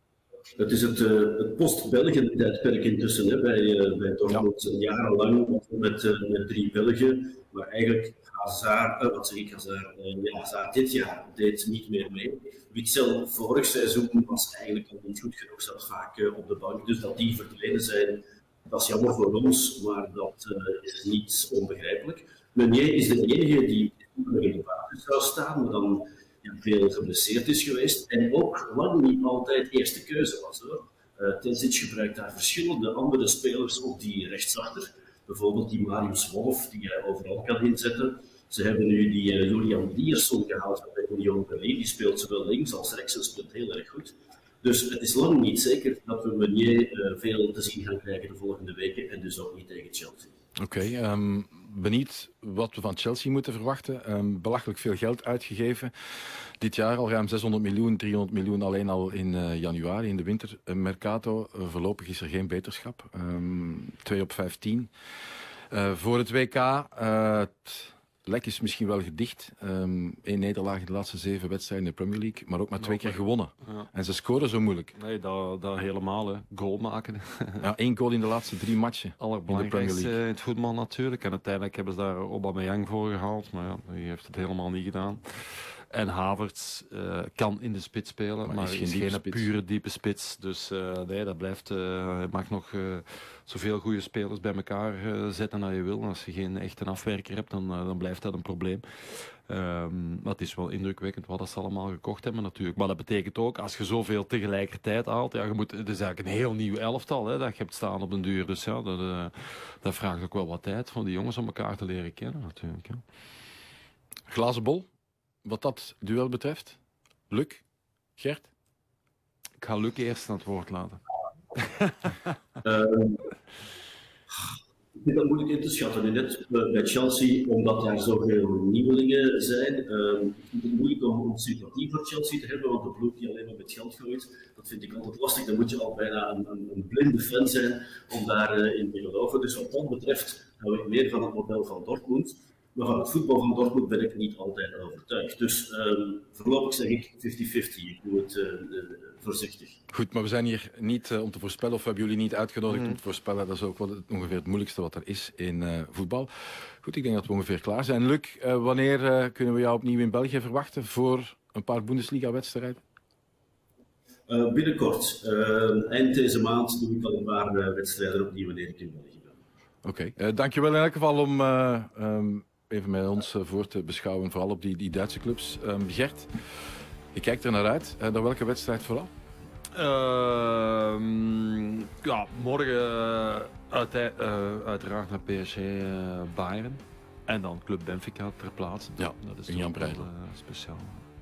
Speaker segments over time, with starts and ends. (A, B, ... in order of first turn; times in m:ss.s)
0:00.6-0:50.3 A
0:50.6-1:04.9 B
1:05.7-1:14.9 B
1:12.8-1:13.9 C
1:15.0-1:17.7 C
1:17.6-1:20.2 B
1:19.2-1:53.0 C
1:28.4-1:29.5 B
1:54.3-1:54.9 B
1:55.4-1:56.8 B
1:57.3-1:57.6 B
1:58.2-1:58.5 B
1:59.6-2:01.0 C
2:01.6-2:02.2 C
2:02.6-2:03.3 A
2:05.0-2:29.8 A
2:29.9-2:36.3 B
2:36.8-2:42.8 B
2:44.3-2:49.4 A
2:49.8-2:56.3 B
2:57.1-2:59.1 B
2:59.8-3:11.0 C
3:09.0-3:10.1 B